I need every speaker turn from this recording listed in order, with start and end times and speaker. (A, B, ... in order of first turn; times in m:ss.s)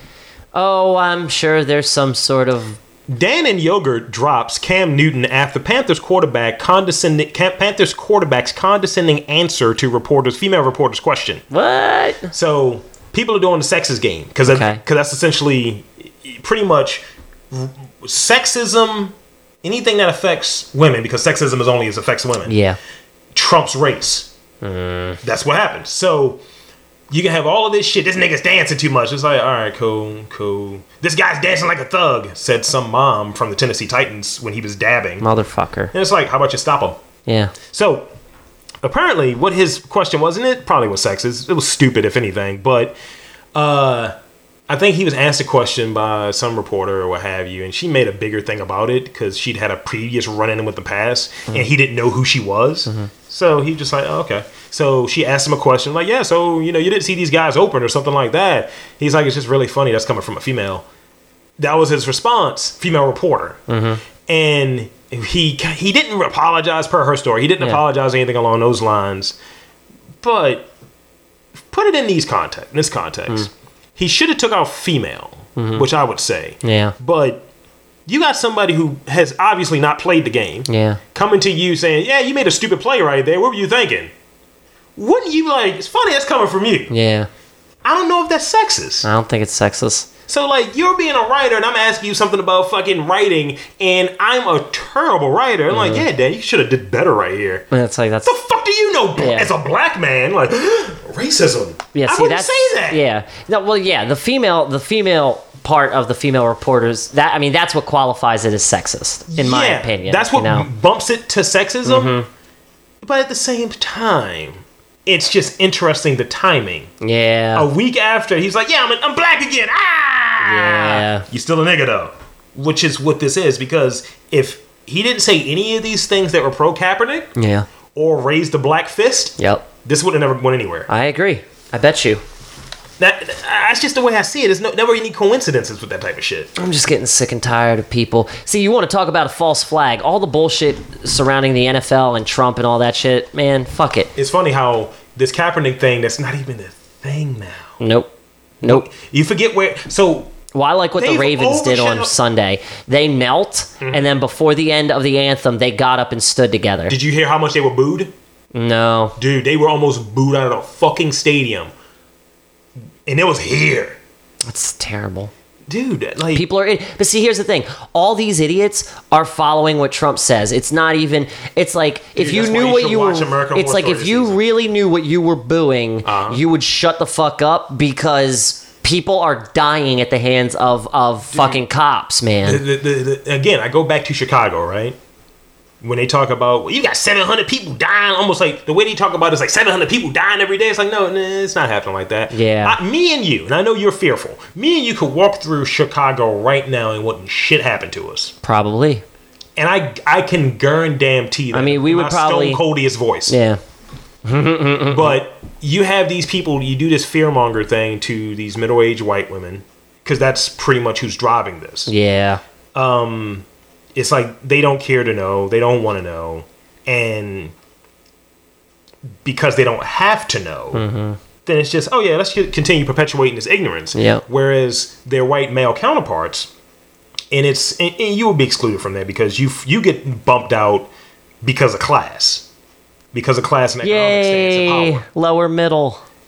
0:00.5-0:02.8 A
0:03.1-0:11.4 B
0:11.5-0:12.3 A
0:12.3-0:22.6 B
0:14.5-0:14.8 A
0:22.5-0:22.8 A
0:23.3-0:24.3 B
0:24.6-0:25.2 A
0:25.2-0:26.4 B
0:27.1-0:35.2 B
0:35.2-0:35.9 A
0:35.9-0:37.0 B
0:37.3-0:37.6 A
0:37.6-0:38.1 B
0:38.8-0:43.0 B
0:43.6-0:44.2 B
0:44.7-1:00.9 B
1:01.6-1:03.6 B
1:03.7-1:04.0 A
1:04.3-1:09.4 B
1:10.2-1:10.7 B
1:11.7-1:17.5 B
1:15.6-1:15.9 A
1:16.6-1:17.0 A
1:18.1-1:24.1 B
1:20.7-1:21.0 A
1:25.0-1:26.9 B
1:26.9-1:27.3 A
1:27.8-1:29.1 B
1:29.0-1:30.1 A
1:30.3-1:37.7 B
1:35.7-1:36.1 A
1:37.7-1:38.3 A
1:38.2-1:43.0 B
1:39.2-1:39.5 A
1:41.9-1:50.7 A
1:49.3-1:52.2 B
1:51.8-1:52.3 A
1:53.0-1:56.9 B
1:57.0-1:57.7 A
1:57.6-2:07.3 B
2:00.4-2:01.3 A
2:07.4-2:07.7 A
2:08.0-2:10.9 B
2:09.4-2:09.7 A
2:10.9-2:12.2 A
2:13.0-2:16.5 B
2:16.6-2:24.1 A
2:24.2-2:27.8 B
2:27.8-2:28.1 A
2:28.6-2:28.9 A
2:28.6-2:30.3 B
2:30.5-2:37.0 A
2:31.0-2:32.2 B
2:33.8-2:34.1 B
2:36.9-2:38.1 B
2:38.5-2:39.2 A
2:39.2-2:41.7 B
2:43.1-2:44.0 B
2:44.5-2:45.3 A
2:45.7-2:46.5 B
2:46.3-3:02.6 A
2:52.2-2:54.4 B
2:56.0-2:56.4 B
3:01.3-3:01.6 B
3:02.4-3:05.0 B
3:05.8-3:18.3 B
3:12.3-3:12.8 A
3:18.4-3:19.0 A
3:19.6-3:23.4 B
3:21.5-3:22.6 A
3:23.3-3:23.6 A
3:24.2-3:25.2 A
3:24.9-3:31.9 B
3:31.9-3:32.4 A
3:32.8-3:37.5 B
3:39.2-3:40.8 B
3:40.7-3:41.2 A
3:41.4-3:46.5 B
3:44.0-3:44.2 A
3:47.3-3:50.9 B
3:51.4-3:52.5 B
3:53.1-3:55.0 B
3:53.8-3:56.0 A